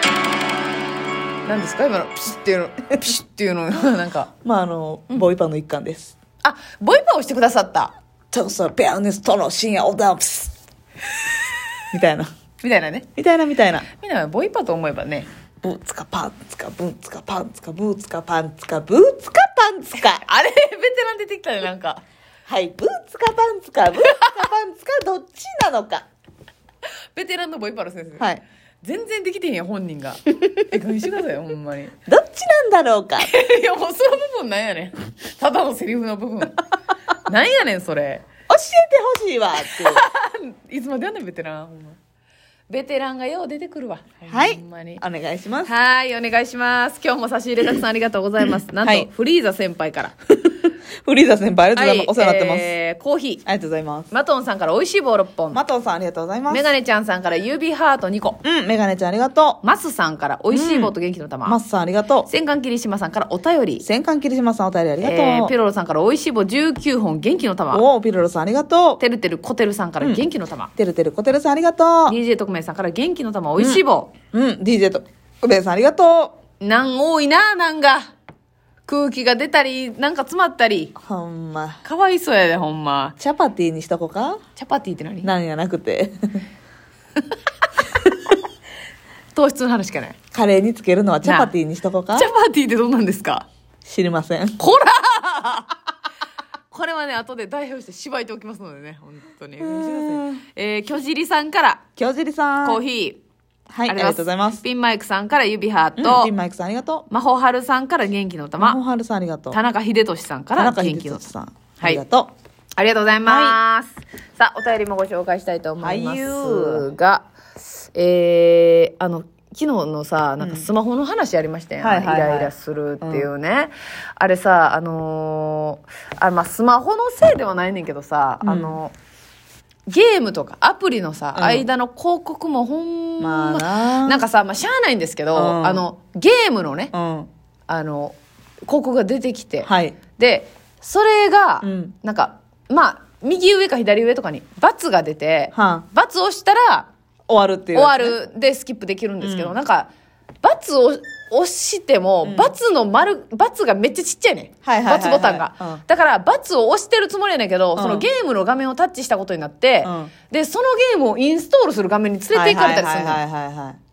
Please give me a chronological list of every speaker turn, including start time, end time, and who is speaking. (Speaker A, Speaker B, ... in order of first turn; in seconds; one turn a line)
Speaker A: 1.4-4.3
Speaker B: 4.4-6.2
Speaker A: 6.4-8.0
Speaker B: 8.3-10.5
Speaker B: 11.9-12.3
Speaker A: 12.6-13.1
Speaker B: 13.2-13.9
Speaker A: 13.9-15.3
Speaker B: 15.6-20.2
Speaker A: 20.0-22.0
Speaker B: 22.5-26.1
Speaker A: 27.1-28.3
Speaker A: 28.8-32.0
Speaker B: 32.1-33.3
Speaker A: 33.2-36.6
Speaker A: 37.2-38.2
Speaker B: 38.5-40.0
Speaker A: 39.6-42.0
Speaker A: 42.7-45.0
Speaker B: 44.3-45.7
Speaker A: 45.6-50.1
Speaker B: 48.8-49.1
Speaker B: 50.3-52.7
Speaker A: 51.8-53.4
Speaker B: 53.5-54.1
Speaker A: 54.1-55.6
Speaker B: 55.5-56.7
Speaker A: 56.5-58.4
Speaker B: 58.4-59.6
Speaker A: 59.6-61.6
Speaker B: 60.5-60.9
Speaker B: 61.5-62.3
Speaker A: 62.3-63.9
Speaker B: 63.8-65.5
Speaker A: 65.0-67.8
Speaker B: 67.7-69.0
Speaker A: 69.0-70.7
Speaker B: 70.8-72.2
Speaker A: 72.1-74.1
Speaker B: 73.6-76.3
Speaker A: 76.6-78.1
Speaker A: 78.9-80.9
Speaker B: 81.0-81.8
Speaker A: 81.8-83.2
Speaker B: 83.2-84.4
Speaker A: 84.6-85.3
Speaker B: 85.2-86.5
Speaker A: 89.3-90.2
Speaker B: 90.3-92.3
Speaker A: 91.2-91.5
Speaker A: 92.1-93.5
Speaker B: 93.8-94.6
Speaker A: 94.6-95.7
Speaker A: 96.7-101.8
Speaker B: 99.6-100.4
Speaker B: 102.0-102.8
Speaker A: 102.6-103.2
Speaker B: 103.7-104.6
Speaker A: 103.9-106.3
Speaker B: 106.0-107.1
Speaker A: 107.1-108.8
Speaker B: 108.6-109.6
Speaker A: 109.5-111.2
Speaker B: 110.6-112.3
Speaker A: 112.8-128.9
Speaker B: 113.2-113.6
Speaker B: 115.8-116.9
Speaker B: 120.4-120.7
Speaker B: 121.8-123.3
Speaker B: 128.4-128.8
Speaker A: 129.9-136.9
Speaker B: 131.3-131.7
Speaker B: 133.2-134.2
Speaker B: 135.3-135.8
Speaker B: 136.9-137.3
Speaker A: 137.7-146.9
Speaker B: 139.6-140.0
Speaker B: 141.6-141.9
Speaker B: 145.5-145.9
Speaker B: 147.3-148.2
Speaker A: 147.7-149.9
Speaker B: 149.2-149.6
Speaker A: 150.4-163.2
Speaker B: 152.2-152.5
Speaker B: 154.6-155.8
Speaker B: 157.8-158.1
Speaker B: 159.8-160.1
Speaker B: 162.3-163.8